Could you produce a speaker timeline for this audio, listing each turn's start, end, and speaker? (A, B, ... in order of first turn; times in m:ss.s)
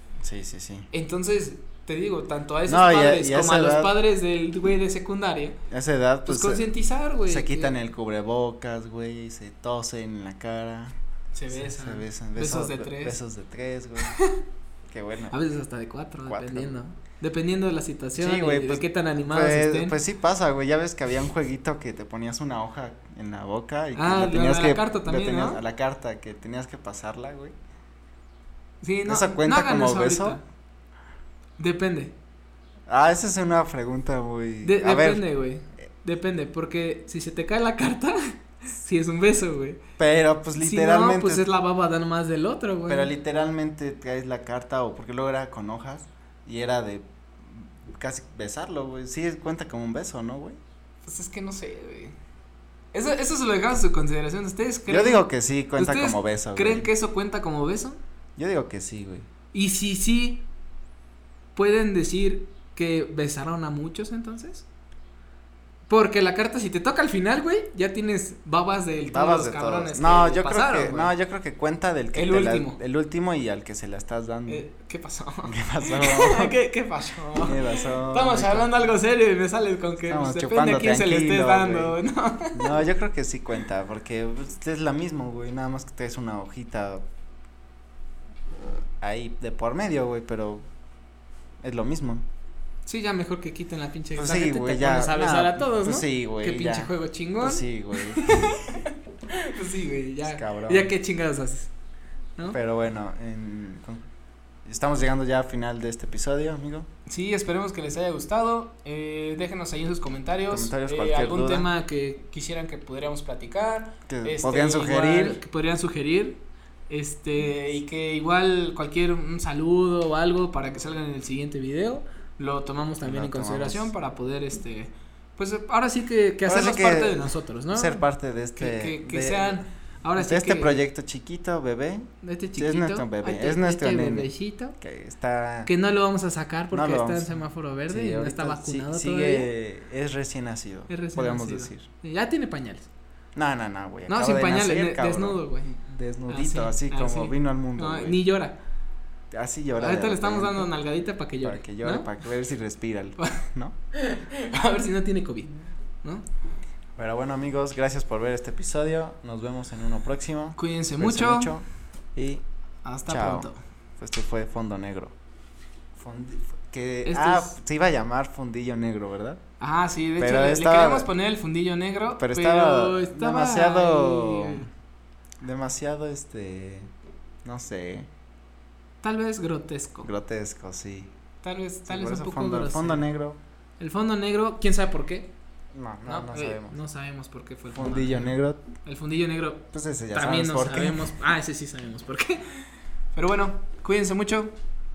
0:00.2-0:00.9 A
0:00.9-0:05.6 B
0:02.7-0:03.9 A
0:05.7-0:06.7 A
0:06.2-0:07.7 B
0:07.2-0:10.9 A
0:11.3-0:13.2 B
0:11.5-0:14.2 A
0:14.0-0:14.4 B
0:14.9-0:15.4 A
0:15.3-0:20.0 B
0:16.2-0:16.7 A
0:18.2-0:27.5 A
0:23.9-0:25.6 B
0:28.8-0:30.4 B
0:29.0-0:30.4 A
0:31.6-0:32.1 B
0:32.9-0:35.2 A
0:34.6-0:39.8 B
0:40.0-0:41.4 A
0:40.6-0:43.1 B
0:42.9-0:50.6 A
0:51.0-0:52.2 B
0:52.9-0:55.2 B
0:54.9-0:56.9 A
0:55.8-0:58.0 B
0:58.4-0:59.3 A
0:59.5-1:00.4 B
1:01.6-1:04.6 B
1:05.9-1:11.1 B
1:09.1-1:14.6 A
1:12.1-1:12.8 B
1:14.5-1:22.7 B
1:15.4-1:16.6 A
1:17.4-1:18.8 A
1:20.1-1:22.0 A
1:22.5-1:27.0 A
1:29.0-1:30.6 A
1:31.6-1:32.2 A
1:32.8-1:41.7 B
1:34.2-1:38.5 A
1:40.2-1:40.9 A
1:42.5-1:44.0 A
1:44.6-1:46.9 A
1:47.1-2:08.0 B
1:50.5-1:51.7 A
1:54.1-1:55.4 A
2:03.0-2:03.9 A
2:06.4-2:09.6 A
2:08.6-2:10.8 B
2:10.2-2:15.7 A
2:12.2-2:14.8 B
2:15.6-2:19.5 B
2:16.7-2:21.8 A
2:20.9-2:22.9 B
2:23.3-2:28.2 A
2:24.1-2:25.7 B
2:26.3-2:28.6 B
2:29.3-2:30.7 A
2:29.7-2:32.1 B
2:31.4-2:33.7 A
2:33.2-2:36.2 B
2:37.0-2:42.4 A
2:40.6-2:41.5 B
2:42.8-2:43.6 B
2:43.1-2:45.1 A
2:45.9-2:49.4 A
2:47.0-2:47.6 B
2:49.6-2:54.7 B
2:50.2-2:51.1 A
2:52.2-2:54.7 A
2:55.4-2:56.9 A
2:57.4-2:58.1 A
2:59.0-3:00.1 B
3:00.0-3:01.1 A
3:01.4-3:03.1 B
3:01.9-3:03.4 A
3:03.8-3:05.3 B
3:05.7-3:06.8 A
3:06.0-3:14.5 B
3:07.7-3:08.6 A
3:09.7-3:11.1 A